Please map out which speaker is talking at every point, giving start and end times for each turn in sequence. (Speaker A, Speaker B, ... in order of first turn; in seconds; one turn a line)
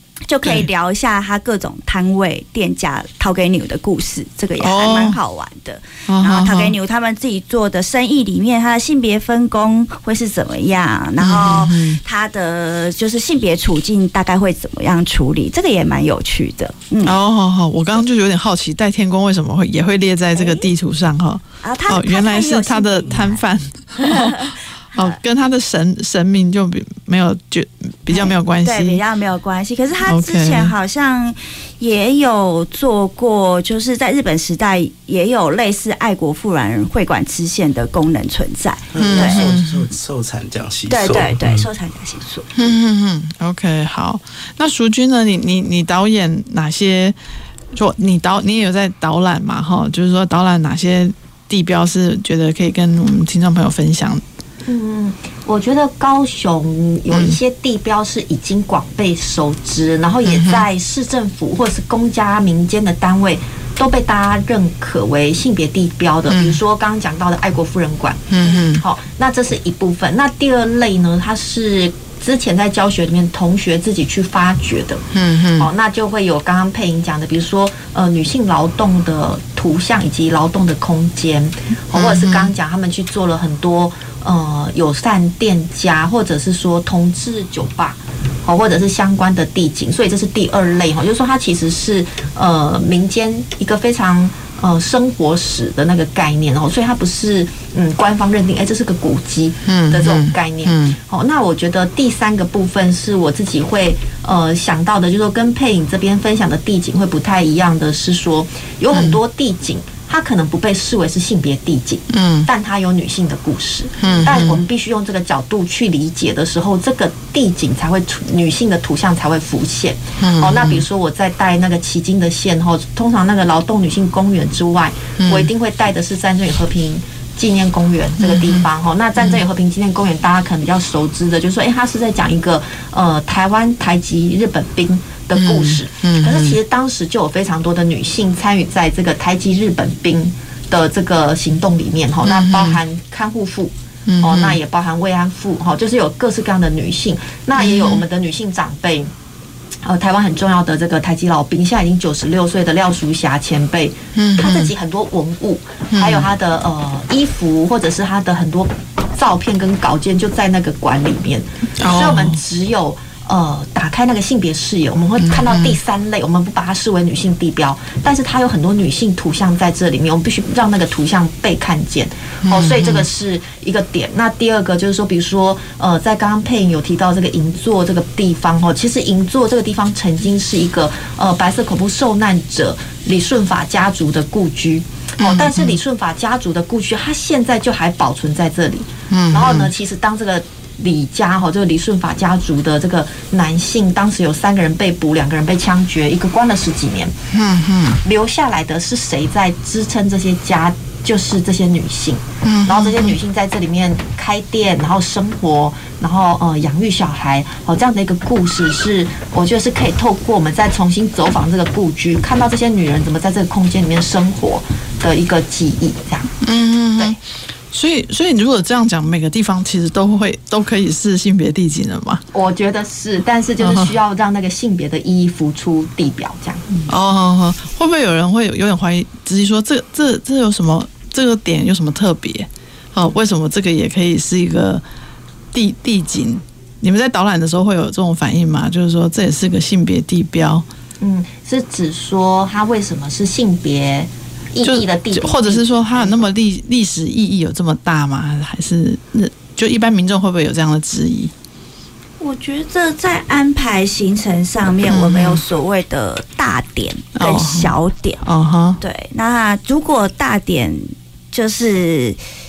Speaker A: 0.3-17.1
Speaker B: 4.6-5.2
Speaker B: 6.1-6.8
Speaker B: 11.2-12.0
Speaker B: 17.0-29.0
Speaker A: 20.4-20.7
Speaker A: 21.6-23.4
Speaker A: 24.0-25.1
Speaker A: 28.1-39.5
Speaker B: 30.1-30.7
Speaker C: 38.9-41.6
Speaker B: 39.0-39.8
Speaker A: 40.9-42.5
Speaker B: 42.5-47.2
Speaker B: 47.7-54.2
Speaker D: 54.7-75.0
Speaker B: 57.1-57.4
Speaker B: 60.3-60.7
Speaker B: 66.3-66.6
Speaker B: 68.3-68.8
Speaker B: 75.1-75.7
Speaker D: 75.6-149.1
Speaker B: 81.9-82.5
Speaker B: 99.7-101.0
Speaker B: 108.9-109.2
Speaker B: 112.1-112.5
Speaker B: 114.0-114.6
Speaker B: 120.2-120.8
Speaker B: 125.2-125.5
Speaker B: 128.2-128.7
Speaker B: 135.3-136.6
Speaker B: 142.2-142.8
Speaker B: 144.1-144.6
Speaker B: 147.6-148.0
Speaker D: 149.8-197.2
Speaker B: 154.2-154.7
Speaker B: 155.9-156.3
Speaker B: 161.8-162.4
Speaker B: 165.2-165.8
Speaker B: 172.4-173.1
Speaker B: 185.2-185.8
Speaker B: 189.1-189.7
Speaker B: 197.3-198.0
Speaker D: 198.0-216.3
Speaker B: 202.4-203.1
Speaker B: 216.4-217.2
Speaker B: 217.7-222.2
Speaker D: 222.3-226.8
Speaker B: 223.6-223.9
Speaker B: 226.9-234.8
Speaker B: 235.5-240.7
Speaker D: 241.0-246.2
Speaker B: 244.6-251.3
Speaker A: 252.2-258.2
Speaker B: 254.9-255.4
Speaker B: 257.1-258.8
Speaker A: 258.8-262.2